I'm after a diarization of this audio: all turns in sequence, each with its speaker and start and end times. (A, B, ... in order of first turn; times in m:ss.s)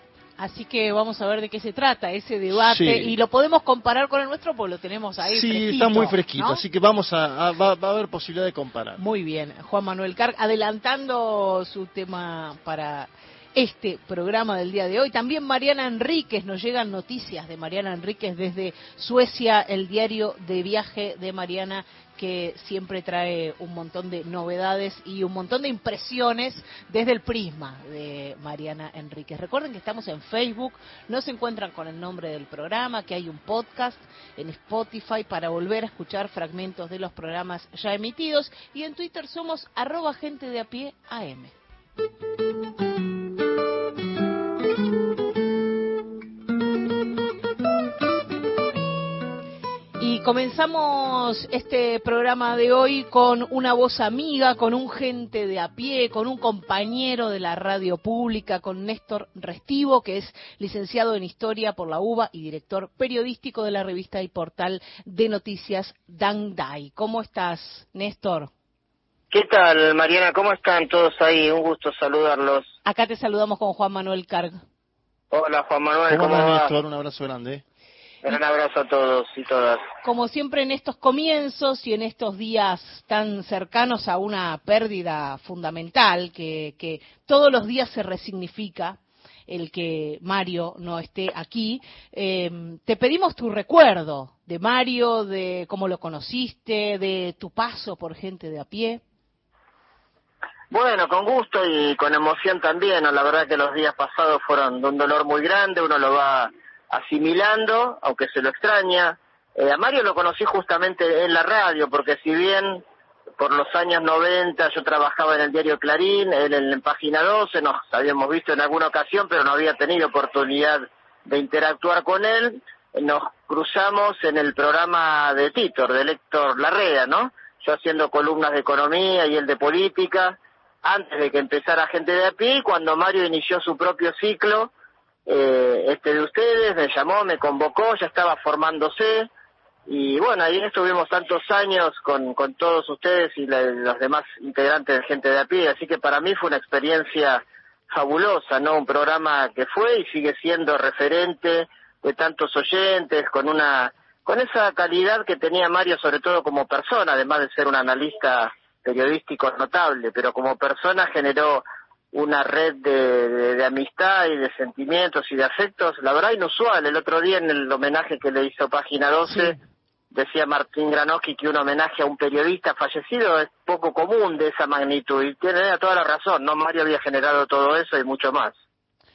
0:00.4-0:06.6 A
0:02.5-0:03.1 B
0:05.2-0:09.0 B
0:09.0-0:41.5 A
0:50.0-1:08.5 A
1:09.3-1:12.7 C
1:12.8-1:14.6 A
1:15.3-1:16.7 C
1:16.1-1:17.6 B
1:18.2-1:19.8 C
1:20.0-1:39.0 A
1:40.7-1:52.8 C
1:53.4-2:14.7 C
2:15.3-2:19.3 C
2:19.9-2:49.5 C
2:50.1-2:58.5 C